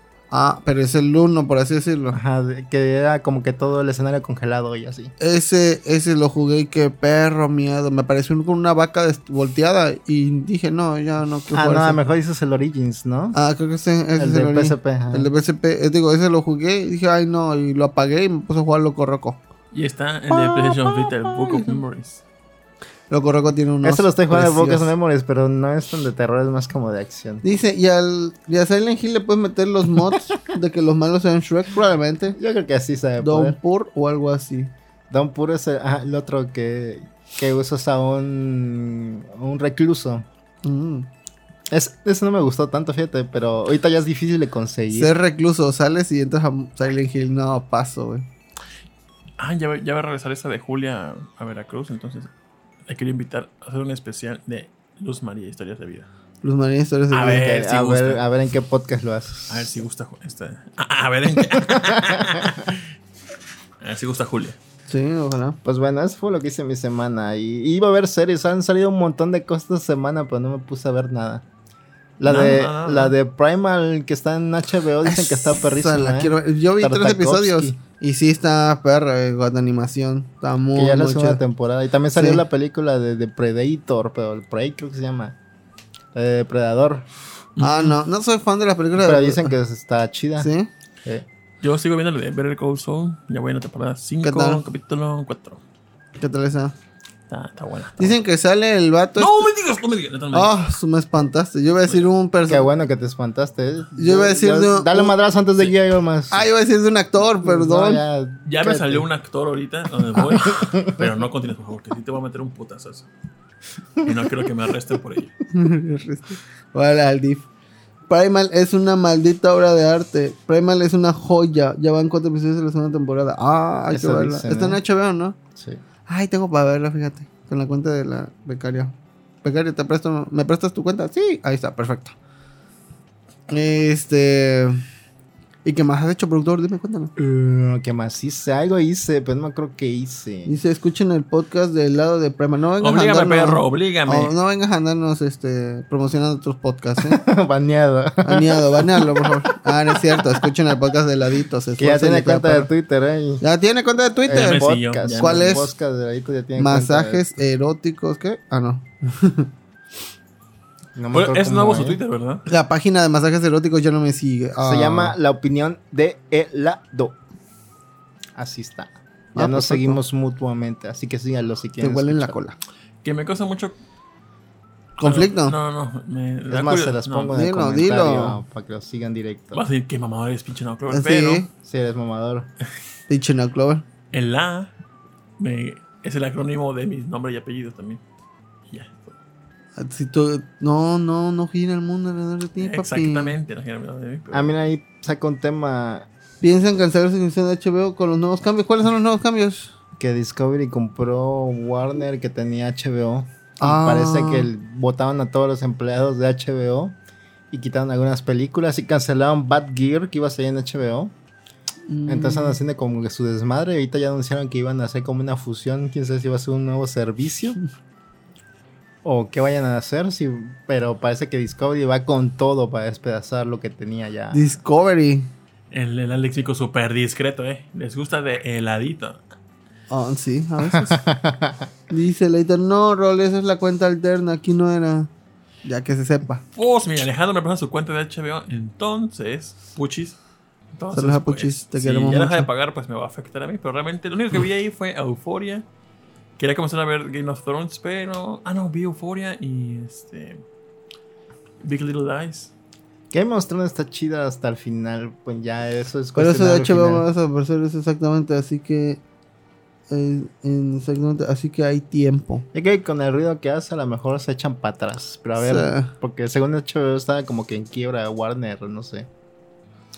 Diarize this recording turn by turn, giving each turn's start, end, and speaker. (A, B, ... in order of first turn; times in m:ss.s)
0:00.3-0:02.2 A
0:02.1-0:05.1 B
0:05.2-0:12.0 A
0:11.5-0:13.4 B
0:13.3-0:19.4 A
0:14.2-0:15.3 B
0:19.7-0:22.2 C
0:20.3-0:21.8 A
0:23.1-0:24.9 A
0:23.8-0:27.4 B
0:27.4-0:32.4 A
0:32.4-0:33.6 B
0:33.2-0:34.7 A
0:35.1-0:40.2 B
0:40.6-0:41.1 A
0:41.7-0:45.1 B
0:44.9-0:48.2 A
0:49.4-0:52.3 C
0:52.9-0:56.1 C
0:56.4-0:57.4 A
0:57.1-0:58.2 C
0:57.2-0:59.7 B
0:59.5-1:02.8 C
1:01.9-1:02.4 B
1:03.8-1:04.6 C
1:04.9-1:05.6 A
1:05.6-1:11.4 B
1:12.2-1:17.8 B
1:12.2-1:13.1 C
1:15.0-1:21.4 A
1:20.7-1:25.4 B
1:22.1-1:22.4 A
1:26.1-1:27.1 B
1:27.6-1:27.9 C
1:27.6-1:29.5 A
1:29.0-1:30.5 B
1:30.4-1:30.7 A
1:31.6-1:35.6 C
1:34.2-1:34.6 A
1:36.2-1:36.8 A
1:37.3-1:38.2 C
1:38.0-1:39.5 A
1:39.2-1:40.5 C
1:40.3-1:42.7 A
1:42.5-1:46.5 B
1:44.0-1:45.1 A
1:46.3-1:48.0 A
1:47.4-1:49.0 B
1:48.4-1:53.1 C
1:50.6-1:51.0 B
1:54.0-1:55.3 C
1:55.5-1:57.5 A
1:58.1-2:05.4 A
2:03.9-2:04.8 B
2:05.6-2:05.8 B
2:06.1-2:12.1 A
2:13.5-2:14.8 A
2:15.6-2:17.1 A
2:17.2-2:20.5 B
2:20.4-2:27.2 A
2:22.8-2:24.3 C
2:27.0-2:29.3 B
2:28.2-2:32.7 A
2:31.8-2:33.4 B
2:33.4-2:35.7 A
2:34.2-2:37.4 B
2:34.3-2:35.6 C
2:36.6-2:39.5 A
2:41.0-2:42.0 B
2:41.1-2:42.4 C
2:42.5-2:45.1 A
2:44.6-2:47.1 B
2:48.4-2:52.4 B
2:49.3-2:50.0 A
2:51.8-2:52.6 A
2:53.0-2:53.8 C
2:55.0-2:55.5 A
2:55.0-2:57.3 C
2:56.5-2:59.6 B
2:57.3-2:58.4 A
2:59.5-3:01.4 C
3:00.9-3:01.5 A
3:01.6-3:02.5 B
3:03.1-3:03.8 A
3:04.1-3:04.7 C
3:05.4-3:08.0 C
3:08.7-3:09.2 C
3:09.8-3:13.3 A
3:12.6-3:14.6 C
3:14.3-3:16.1 B
3:16.4-3:19.7 A
3:20.0-3:27.0 B
3:23.6-3:24.5 A
3:27.5-3:31.1 B
3:31.9-3:32.6 A
3:32.0-3:37.6 B
3:39.0-3:44.5 B
3:44.3-3:45.3 A
3:45.7-3:49.2 C
3:49.9-3:51.0 A
3:50.7-3:51.7 B
3:51.9-3:55.1 A
3:55.6-3:56.4 A
3:56.5-4:00.2 C
4:00.8-4:05.6 C
4:00.9-4:02.5 A
4:06.4-4:10.4 C
4:11.6-4:12.5 C
4:13.1-4:17.0 B
4:16.2-4:19.0 A
4:19.9-4:22.4 A
4:22.5-4:29.1 B
4:25.4-4:25.9 A